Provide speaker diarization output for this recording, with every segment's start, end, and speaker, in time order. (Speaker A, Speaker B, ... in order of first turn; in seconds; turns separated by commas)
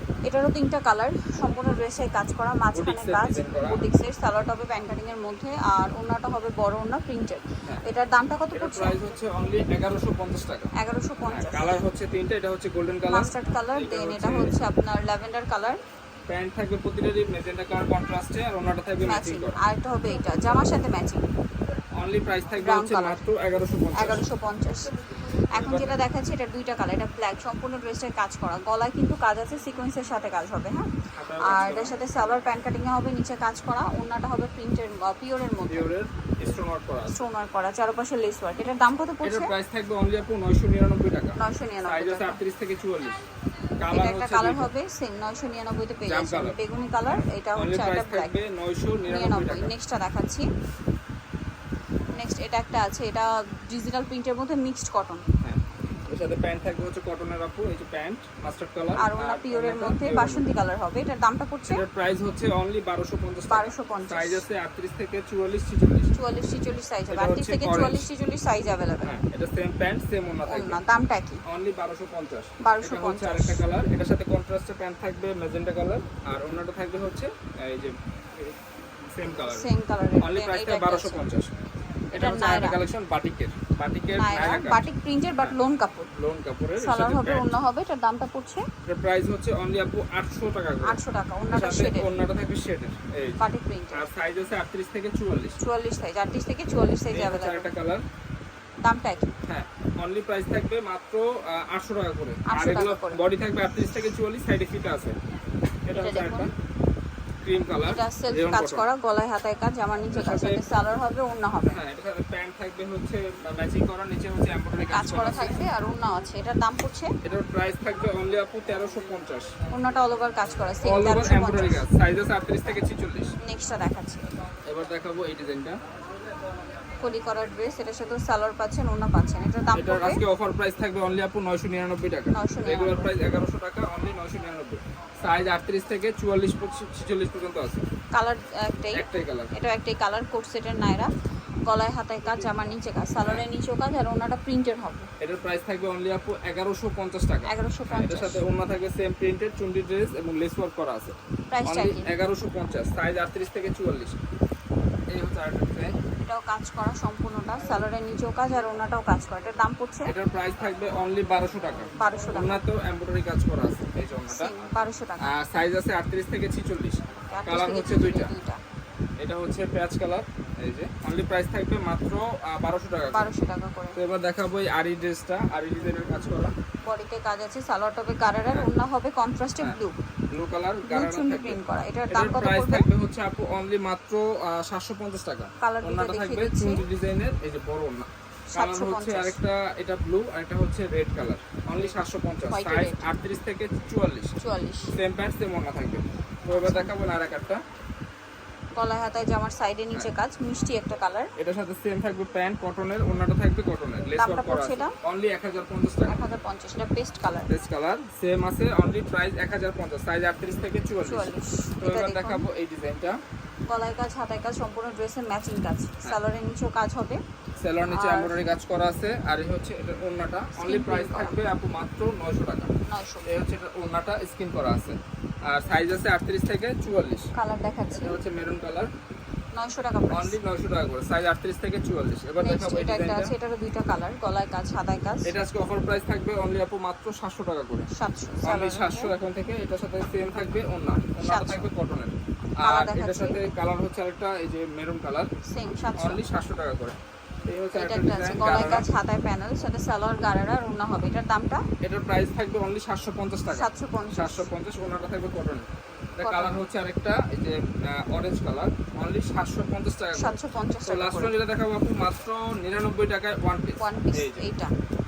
Speaker A: 0.3-9.0, Speaker B: 2.7-3.9, Speaker B: 8.5-10.7, Speaker A: 10.8-11.8, Speaker B: 11.3-14.6, Speaker A: 13.1-15.8, Speaker B: 16.3-19.6, Speaker A: 19.0-21.2, Speaker B: 22.0-24.2, Speaker A: 22.6-23.2, Speaker A: 24.0-24.9, Speaker B: 25.5-26.1, Speaker A: 25.5-35.9, Speaker B: 31.1-32.0, Speaker B: 35.7-37.2, Speaker A: 37.1-39.5, Speaker B: 39.2-43.2, Speaker A: 41.4-42.4, Speaker B: 43.8-44.7, Speaker A: 43.9-48.4, Speaker B: 46.1-46.6, Speaker B: 47.6-49.7, Speaker A: 49.1-50.5, Speaker A: 52.1-55.2, Speaker B: 55.4-60.5, Speaker A: 59.0-61.8, Speaker B: 61.7-66.1, Speaker A: 63.5-64.4, Speaker A: 66.1-69.2, Speaker B: 67.1-68.1, Speaker B: 69.0-70.8, Speaker A: 70.5-71.4, Speaker B: 71.5-79.7, Speaker A: 72.6-73.6, Speaker A: 79.4-81.3, Speaker B: 80.2-81.5, Speaker A: 82.1-82.8, Speaker B: 82.1-84.8, Speaker A: 84.1-86.1, Speaker B: 86.1-87.6, Speaker A: 86.8-88.7, Speaker B: 88.9-91.0, Speaker A: 90.8-92.1, Speaker B: 91.5-93.4, Speaker A: 93.4-94.1, Speaker B: 93.9-95.6, Speaker A: 95.6-97.7, Speaker B: 97.1-98.0, Speaker A: 98.8-99.3, Speaker B: 99.4-105.2, Speaker A: 102.5-103.2, Speaker B: 105.9-106.5, Speaker A: 106.0-106.5, Speaker B: 107.4-108.9, Speaker A: 107.8-111.8, Speaker B: 110.1-110.7, Speaker B: 111.7-115.6, Speaker A: 114.9-117.1, Speaker B: 117.2-119.5, Speaker A: 119.7-121.8, Speaker B: 120.8-123.3, Speaker A: 123.4-124.3, Speaker B: 124.7-125.8, Speaker A: 127.0-130.2, Speaker B: 129.8-137.8, Speaker A: 132.3-133.1, Speaker A: 138.1-141.1, Speaker B: 138.9-139.6, Speaker A: 141.7-145.1, Speaker B: 143.2-143.5, Speaker B: 145.2-151.1, Speaker A: 147.5-148.4, Speaker A: 151.5-152.1, Speaker B: 151.7-154.2, Speaker B: 155.1-155.9, Speaker A: 156.2-160.1, Speaker B: 160.1-164.6, Speaker A: 162.0-162.6, Speaker A: 164.3-165.4, Speaker B: 165.2-168.3, Speaker A: 167.3-168.6, Speaker B: 169.2-173.3, Speaker A: 173.1-174.0, Speaker B: 174.0-176.5, Speaker A: 176.8-179.9, Speaker B: 180.3-181.6, Speaker A: 180.8-182.9, Speaker B: 182.1-194.3, Speaker A: 185.6-186.9, Speaker A: 188.5-189.4, Speaker A: 192.5-193.1, Speaker A: 194.4-195.0, Speaker B: 194.9-197.6, Speaker A: 196.5-196.9, Speaker A: 198.8-201.3, Speaker B: 201.4-206.2, Speaker A: 204.2-205.0, Speaker A: 206.1-207.5, Speaker B: 207.5-213.2, Speaker A: 211.0-212.5, Speaker A: 213.7-217.2, Speaker B: 217.6-222.7, Speaker A: 217.9-218.3, Speaker A: 220.6-221.4, Speaker A: 222.9-223.3, Speaker B: 223.3-227.3, Speaker A: 227.3-228.2, Speaker B: 228.0-228.9, Speaker A: 229.5-230.4, Speaker B: 230.1-233.3, Speaker A: 232.4-235.3, Speaker B: 235.3-237.9, Speaker A: 237.9-239.1, Speaker B: 238.4-245.3, Speaker A: 241.2-241.7, Speaker A: 242.6-243.4, Speaker A: 245.5-246.2, Speaker B: 246.0-248.9, Speaker A: 247.7-251.7, Speaker B: 251.8-255.7, Speaker A: 253.6-254.5, Speaker B: 256.2-264.5, Speaker A: 256.2-256.6, Speaker A: 260.1-261.4, Speaker A: 263.8-264.7